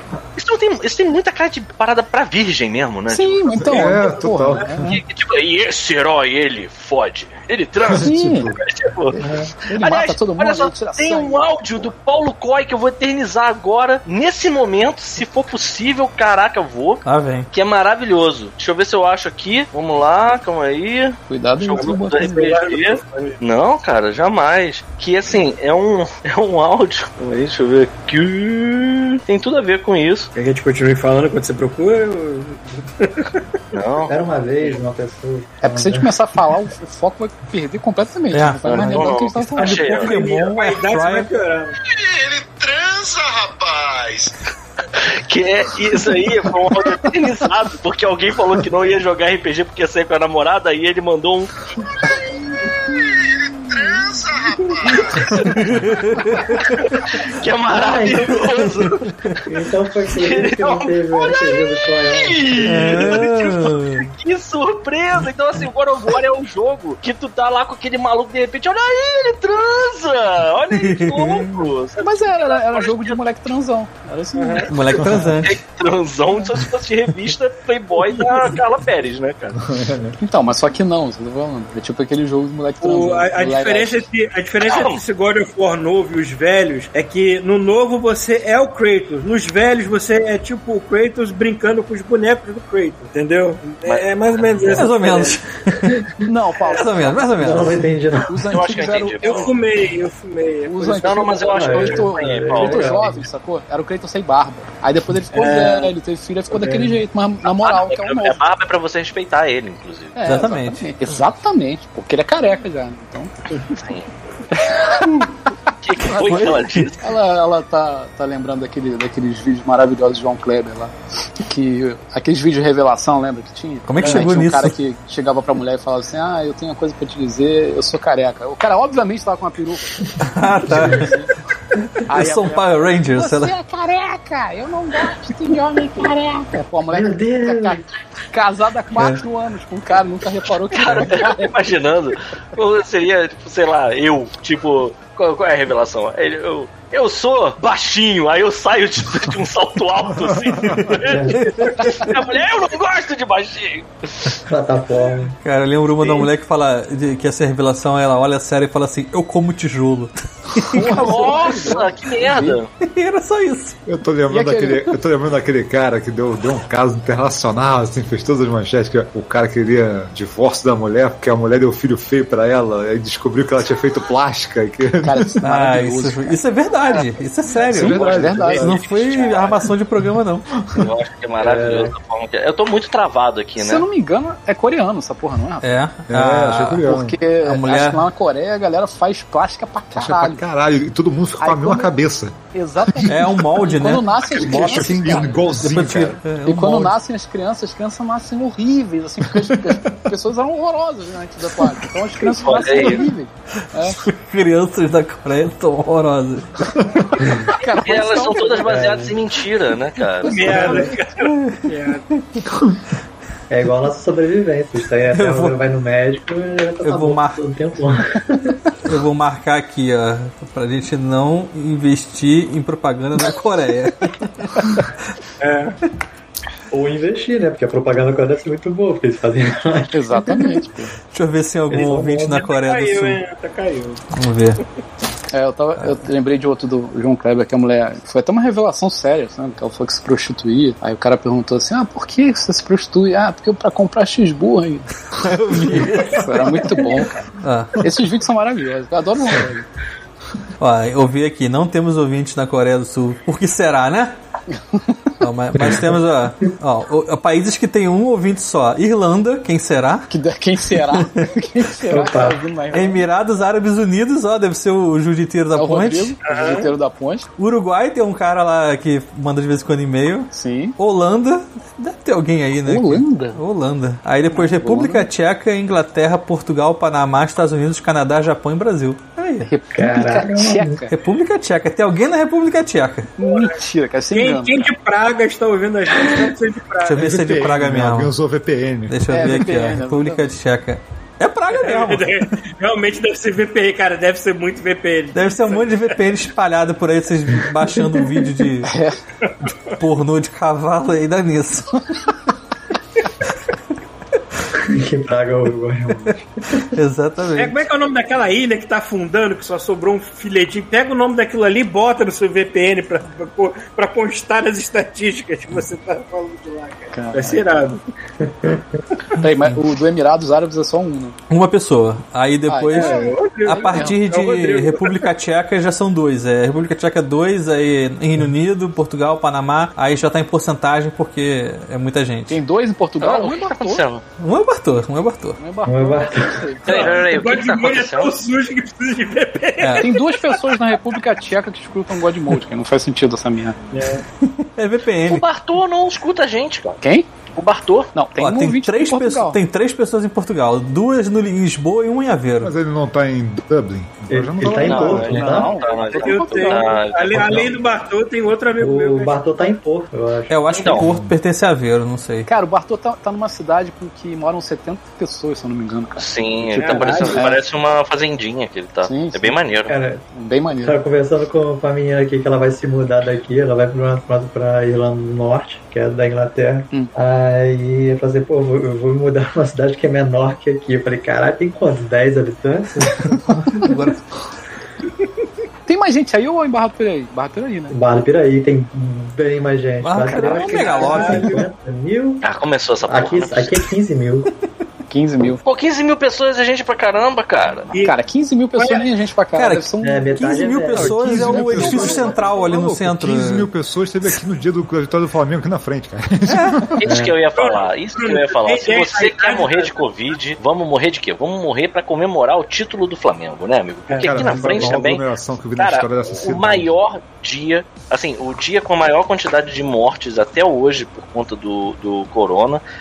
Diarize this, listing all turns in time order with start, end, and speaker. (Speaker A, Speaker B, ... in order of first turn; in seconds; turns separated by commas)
Speaker A: 0.4-3.9, Speaker B: 3.1-5.0, Speaker C: 3.6-4.9, Speaker D: 4.0-4.8, Speaker A: 4.8-9.2, Speaker C: 7.9-8.6, Speaker B: 8.0-8.5, Speaker E: 9.2-9.5, Speaker B: 9.7-11.9, Speaker A: 9.7-30.3, Speaker F: 17.1-17.5, Speaker B: 21.3-22.6, Speaker D: 21.8-23.4, Speaker D: 30.4-33.4, Speaker A: 33.7-34.1, Speaker E: 34.1-36.1, Speaker B: 35.6-40.0, Speaker F: 38.3-41.3, Speaker A: 38.8-40.1, Speaker D: 39.6-41.8, Speaker G: 41.8-44.4, Speaker A: 45.1-51.5, Speaker G: 52.0-55.4, Speaker A: 55.2-55.5, Speaker F: 55.5-56.7, Speaker A: 56.8-59.1, Speaker E: 57.7-58.6, Speaker E: 59.5-63.1, Speaker A: 60.2-73.2, Speaker F: 62.7-64.1, Speaker F: 70.7-71.7, Speaker B: 72.0-75.1, Speaker D: 74.3-74.7, Speaker F: 74.7-75.6, Speaker C: 75.0-75.3, Speaker A: 75.4-79.6, Speaker C: 79.6-80.2, Speaker B: 80.2-84.1, Speaker D: 82.8-95.4, Speaker A: 84.6-85.0, Speaker A: 93.8-94.9, Speaker F: 94.7-96.0, Speaker B: 96.2-99.6, Speaker F: 96.7-97.8, Speaker E: 97.4-98.4, Speaker A: 98.5-99.5, Speaker D: 99.2-101.9, Speaker B: 100.7-108.4, Speaker A: 101.0-103.1, Speaker E: 101.6-103.1, Speaker D: 105.3-105.9, Speaker A: 107.5-110.2, Speaker B: 110.2-113.3, Speaker F: 110.3-110.9, Speaker A: 113.8-114.1, Speaker B: 114.6-115.3, Speaker A: 115.8-117.1, Speaker B: 116.1-116.5, Speaker F: 116.2-116.9, Speaker B: 117.0-120.9, Speaker B: 121.5-130.1, Speaker F: 123.9-124.8, Speaker E: 124.0-124.3, Speaker F: 130.2-131.1, Speaker B: 130.7-131.3, Speaker E: 130.7-131.1, Speaker B: 132.1-141.6, Speaker F: 132.1-133.5, Speaker E: 136.9-137.8, Speaker A: 140.7-154.4, Speaker C: 150.2-150.9, Speaker E: 151.0-151.5, Speaker F: 151.3-152.1, Speaker E: 154.5-155.3, Speaker F: 155.4-160.8, Speaker B: 160.7-162.6, Speaker A: 160.8-162.7, Speaker F: 162.8-163.8, Speaker C: 163.9-175.4, Speaker B: 164.3-164.9, Speaker B: 175.0-176.4, Speaker F: 175.4-180.5, Speaker C: 177.7-178.8, Speaker B: 177.7-179.4, Speaker A: 180.8-183.9, Speaker E: 181.4-181.9, Speaker B: 183.6-185.7, Speaker F: 185.6-188.1, Speaker C: 186.1-187.2, Speaker B: 186.8-190.4, Speaker C: 190.0-193.1, Speaker B: 191.4-191.9, Speaker B: 192.5-204.0, Speaker F: 193.1-196.9, Speaker C: 194.3-196.4, Speaker A: 202.4-203.1, Speaker F: 203.9-206.5, Speaker B: 207.4-208.8, Speaker A: 207.7-210.7, Speaker E: 208.7-209.2, Speaker B: 210.2-210.9, Speaker D: 210.2-212.0, Speaker E: 210.6-210.9, Speaker F: 211.2-211.7, Speaker E: 213.5-218.6, Speaker F: 215.1-215.6, Speaker F: 216.8-217.4, Speaker F: 218.8-224.8, Speaker D: 225.4-225.8, Speaker E: 226.7-230.6, Speaker B: 229.9-230.9, Speaker F: 231.1-233.2, Speaker E: 231.7-232.5, Speaker D: 232.4-234.0, Speaker F: 234.2-234.6, Speaker B: 235.3-244.9, Speaker F: 245.2-246.8, Speaker B: 246.1-247.2, Speaker F: 247.4-247.9, Speaker B: 247.8-249.7, Speaker F: 250.6-254.2, Speaker F: 255.2-260.1, Speaker B: 260.1-263.1, Speaker F: 260.9-261.3, Speaker E: 261.9-262.4, Speaker F: 262.7-266.2, Speaker B: 265.6-267.3, Speaker D: 266.2-266.7, Speaker F: 267.4-279.5, Speaker B: 270.3-270.8, Speaker B: 272.6-273.4, Speaker B: 274.3-275.1, Speaker B: 279.4-280.9, Speaker E: 279.7-280.8, Speaker F: 280.9-283.1, Speaker B: 283.2-284.7, Speaker D: 283.2-283.6, Speaker D: 284.1-287.0, Speaker F: 286.8-288.1, Speaker C: 287.0-289.2, Speaker F: 288.9-292.4, Speaker B: 289.1-290.2, Speaker D: 291.5-295.9, Speaker F: 295.1-298.7, Speaker B: 298.6-299.0, Speaker D: 299.2-299.5, Speaker F: 299.8-301.8, Speaker E: 304.6-306.6, Speaker F: 306.8-307.6, Speaker D: 307.4-317.8, Speaker B: 316.9-317.4, Speaker E: 318.3-318.6, Speaker B: 319.2-321.2, Speaker F: 321.3-332.4, Speaker B: 322.5-324.0, Speaker D: 322.7-325.1, Speaker B: 332.3-333.8, Speaker A: 333.0-334.0, Speaker F: 334.2-335.4, Speaker B: 335.4-337.0, Speaker E: 335.7-336.6, Speaker A: 336.7-338.1, Speaker D: 336.7-340.6, Speaker F: 339.6-339.9, Speaker B: 339.8-343.6, Speaker D: 343.7-344.0, Speaker F: 344.3-345.2, Speaker A: 345.1-346.8, Speaker B: 346.8-347.1, Speaker A: 347.4-347.9, Speaker B: 347.9-349.4, Speaker F: 348.2-352.5, Speaker C: 352.4-355.2, Speaker E: 354.1-355.6, Speaker A: 354.6-357.5, Speaker B: 354.6-356.9, Speaker D: 355.9-359.2, Speaker E: 358.6-360.6, Speaker F: 360.3-362.3, Speaker A: 360.5-360.9, Speaker C: 360.7-361.1, Speaker B: 362.3-367.4, Speaker A: 366.0-369.7, Speaker D: 366.6-367.3, Speaker B: 368.8-369.4, Speaker E: 369.7-370.1, Speaker B: 370.1-370.8, Speaker E: 370.6-383.7, Speaker F: 383.6-384.1, Speaker B: 385.7-387.8, Speaker E: 387.7-392.2, Speaker F: 389.8-391.4, Speaker D: 390.4-391.4, Speaker A: 392.2-393.6, Speaker E: 392.9-394.3, Speaker B: 394.9-395.4, Speaker A: 395.4-397.7, Speaker D: 397.7-398.0, Speaker B: 397.8-400.2, Speaker D: 398.6-398.9, Speaker F: 399.4-403.5, Speaker E: 399.8-402.3, Speaker C: 400.7-406.8, Speaker F: 406.3-406.7, Speaker A: 406.8-415.1, Speaker E: 406.9-407.1, Speaker D: 407.4-409.7, Speaker D: 413.9-414.7, Speaker C: 414.0-416.7, Speaker A: 415.6-422.6